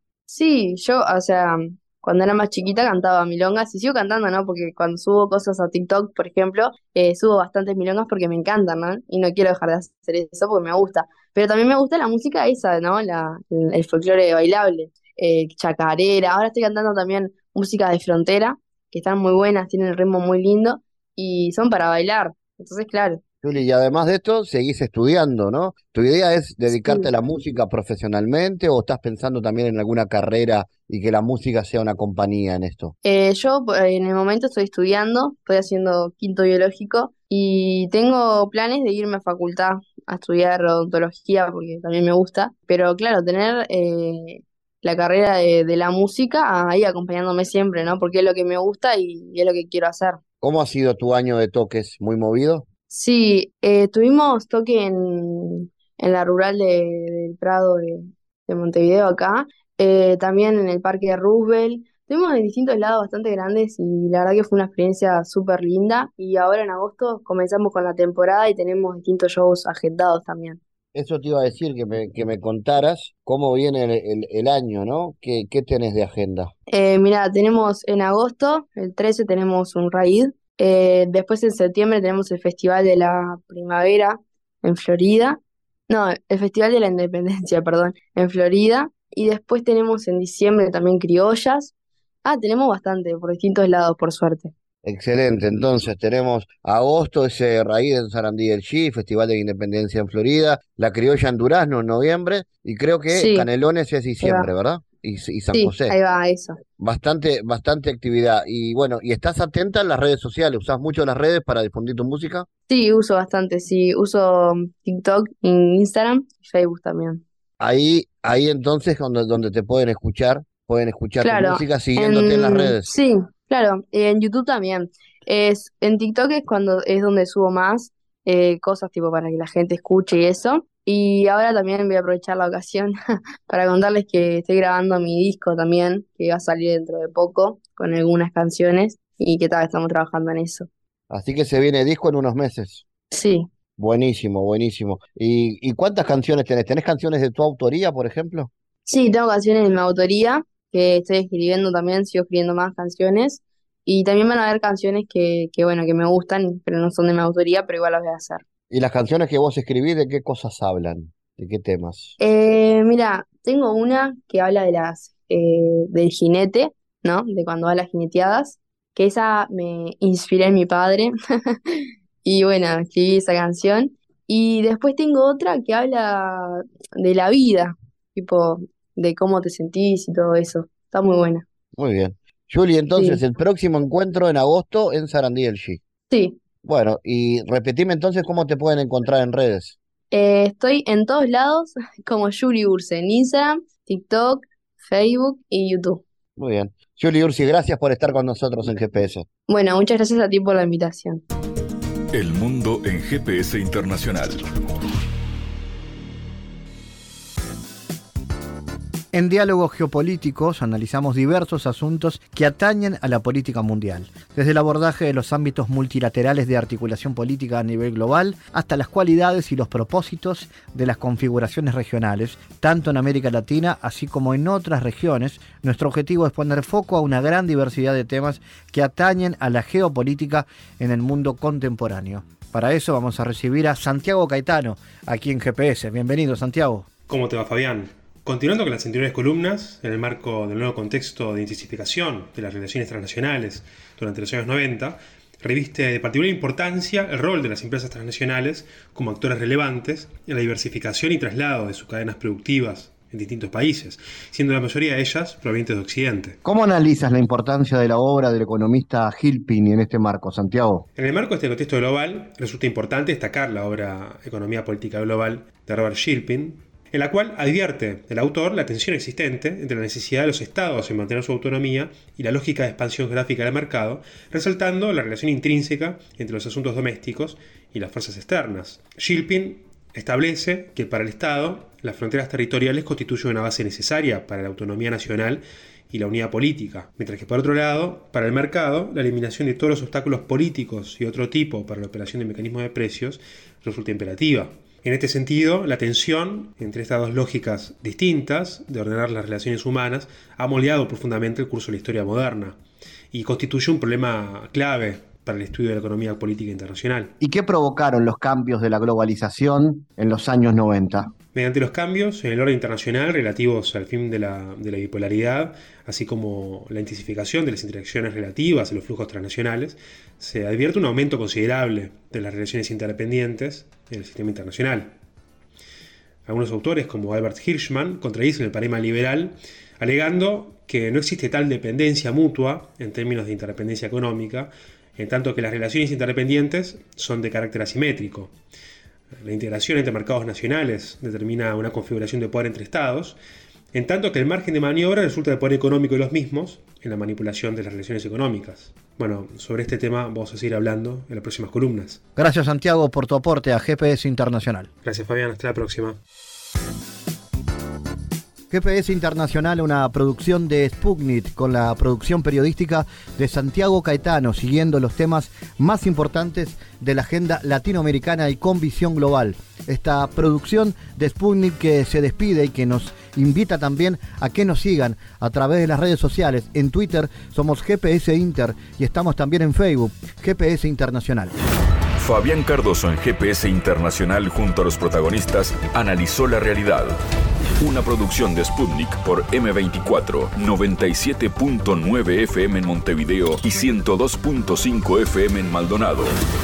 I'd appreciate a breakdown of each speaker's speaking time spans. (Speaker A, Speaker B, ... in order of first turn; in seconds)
Speaker A: 0.3-23.2, 26.7-27.1, 33.0-50.2, 52.9-70.6, 76.7-91.7, 92.2-94.5, 103.1-103.5, 104.2-104.5, 105.5-106.6, 112.7-117.2, 121.2-132.9, 133.5-140.7, 143.1-143.5, 148.8-158.4, 162.2-181.4, 182.9-183.2, 186.1-186.4, 190.1-196.0, 199.5-201.2
Speaker B: 23.4-32.9, 50.4-52.6, 70.9-76.5, 94.8-105.9, 106.8-112.5, 117.6-122.9, 141.1-142.8, 143.8-148.5, 158.7-162.1, 181.8-185.8, 186.6-189.8, 196.4-199.2, 209.1-236.9, 256.4-260.9, 307.2-311.1, 352.1-354.7, 358.5-381.3
Speaker C: 202.1-204.4, 382.0-386.9, 387.6-396.1
Speaker D: 237.1-256.4, 260.9-302.6, 303.1-307.1, 311.3-324.9, 326.2-338.3, 339.1-343.2, 343.7-352.0, 354.8-356.0